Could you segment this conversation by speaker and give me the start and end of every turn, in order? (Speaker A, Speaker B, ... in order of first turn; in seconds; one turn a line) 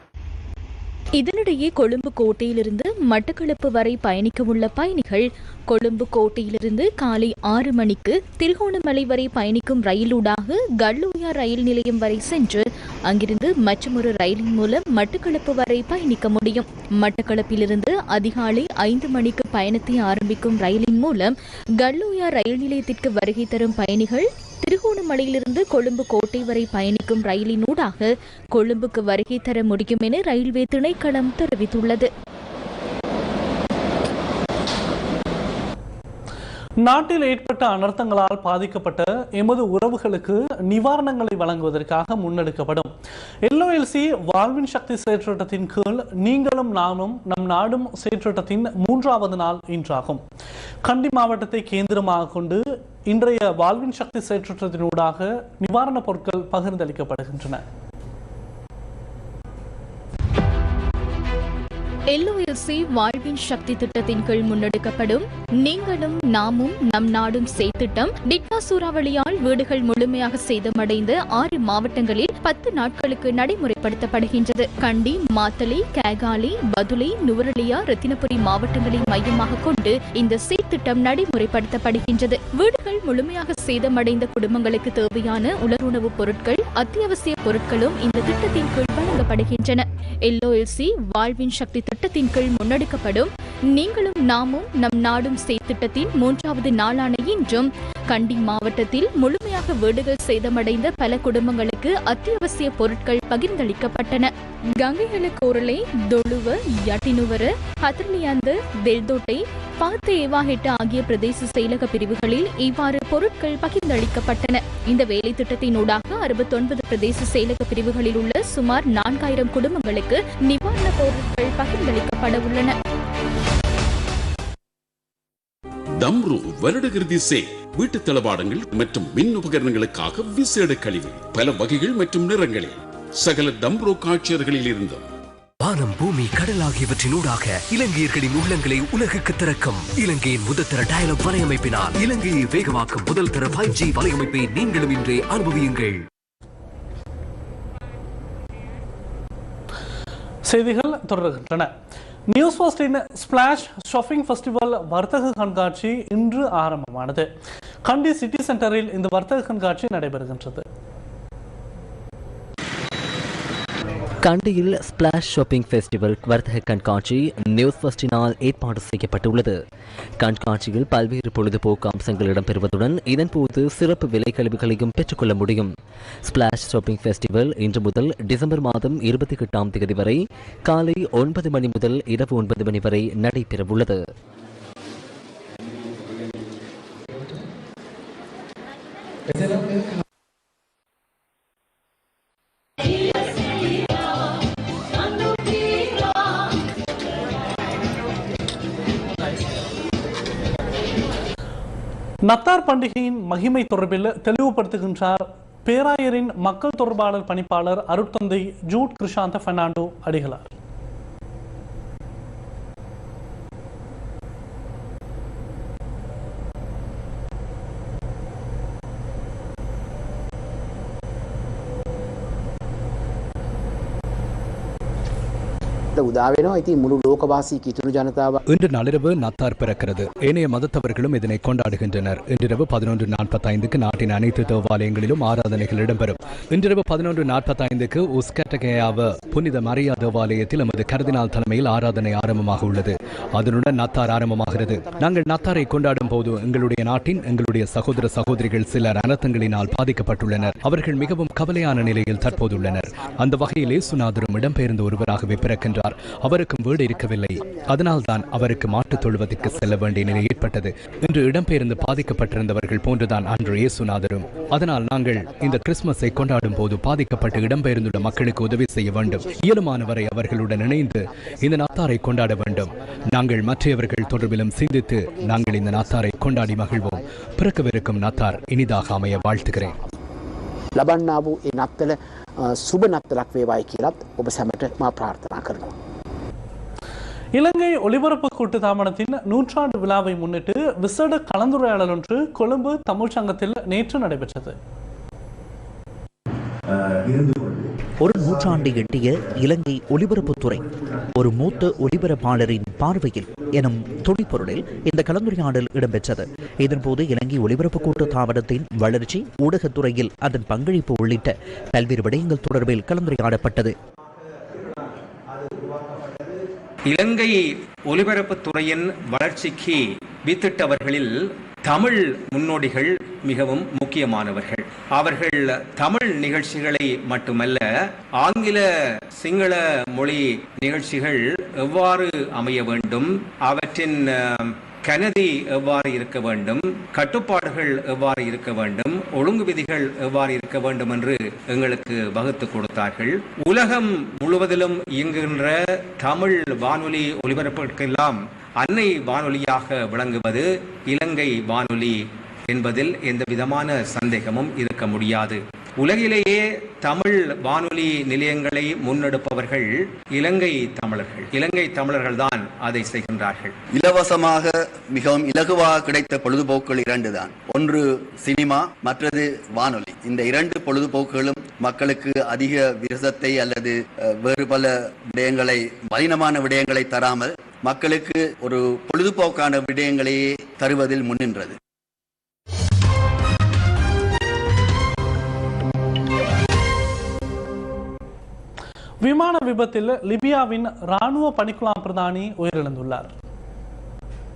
Speaker A: 1.2-32.1
Speaker B: 36.8-42.9
Speaker B: 43.5-50.2
Speaker B: 50.8-57.6
Speaker A: 62.1-122.8
Speaker C: 126.0-135.0
Speaker D: 135.6-146.0
Speaker B: 150.5-151.7
Speaker B: 152.3-157.3
Speaker B: 157.9-160.6
Speaker E: 164.2-169.6
Speaker E: 170.2-175.7
Speaker E: 176.2-184.0
Speaker B: 202.3-210.5
Speaker F: 225.9-228.4
Speaker G: 228.5-279.8
Speaker F: 275.3-277.0
Speaker F: 278.1-278.6
Speaker F: 280.8-285.8
Speaker B: 287.3-294.6
Speaker H: 297.1-313.7
Speaker I: 316.9-321.1
Speaker I: 321.6-327.6
Speaker I: 328.2-328.6
Speaker I: 329.2-363.5
Speaker J: 363.7-381.6
Speaker B: 389.0-393.1